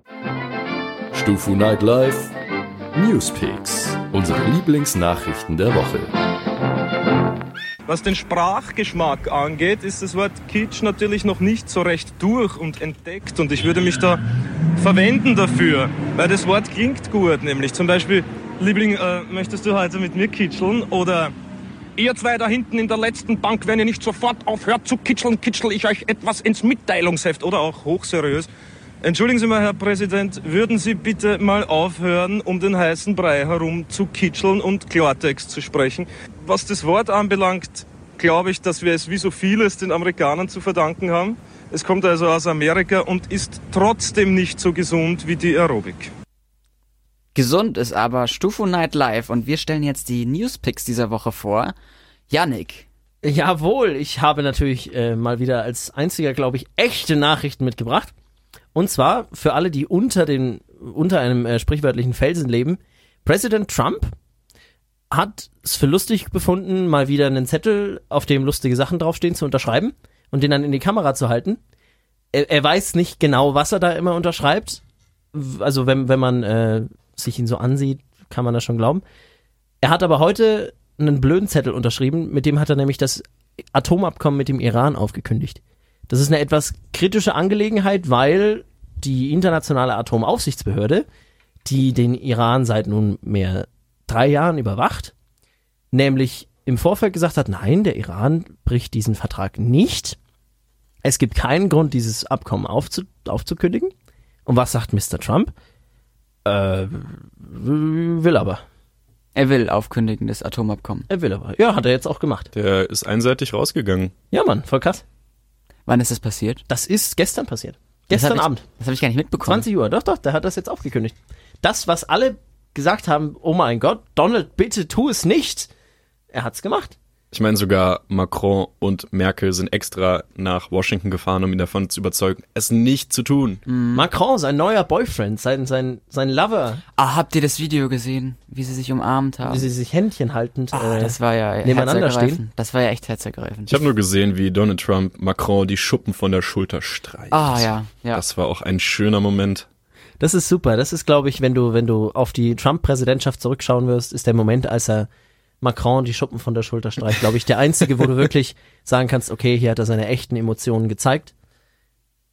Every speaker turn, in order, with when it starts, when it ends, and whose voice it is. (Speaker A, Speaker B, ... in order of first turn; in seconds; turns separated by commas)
Speaker A: 1.1-2.3, Speaker A: 2.9-6.1, Speaker B: 7.9-14.2, Speaker B: 14.8-21.3, Speaker B: 22.0-28.5, Speaker B: 29.0-46.1, Speaker C: 47.3-51.7, Speaker C: 52.3-52.9, Speaker D: 53.2-58.1, Speaker D: 58.7-64.1, Speaker D: 65.1-71.6, Speaker D: 72.3-74.8, Speaker D: 75.3-79.0, Speaker D: 79.8-83.2, Speaker D: 83.7-91.0, Speaker D: 91.6-95.1, Speaker D: 95.9-100.2, Speaker D: 101.0-103.9, Speaker D: 104.5-105.5, Speaker D: 106.4-108.6, Speaker C: 109.3-111.1, Speaker D: 111.1-112.5, Speaker E: 112.5-114.1, Speaker D: 114.3-115.0, Speaker C: 115.9-116.6, Speaker D: 116.7-118.6, Speaker C: 118.1-119.7, Speaker D: 119.4-125.7, Speaker D: 126.3-127.0, Speaker E: 127.3-133.6, Speaker C: 133.7-134.1, Speaker D: 133.9-136.8, Speaker C: 137.0-139.7, Speaker D: 139.4-142.4, Speaker C: 140.7-143.8, Speaker E: 143.7-149.7, Speaker C: 147.3-148.2, Speaker D: 150.2-155.1, Speaker D: 155.6-161.3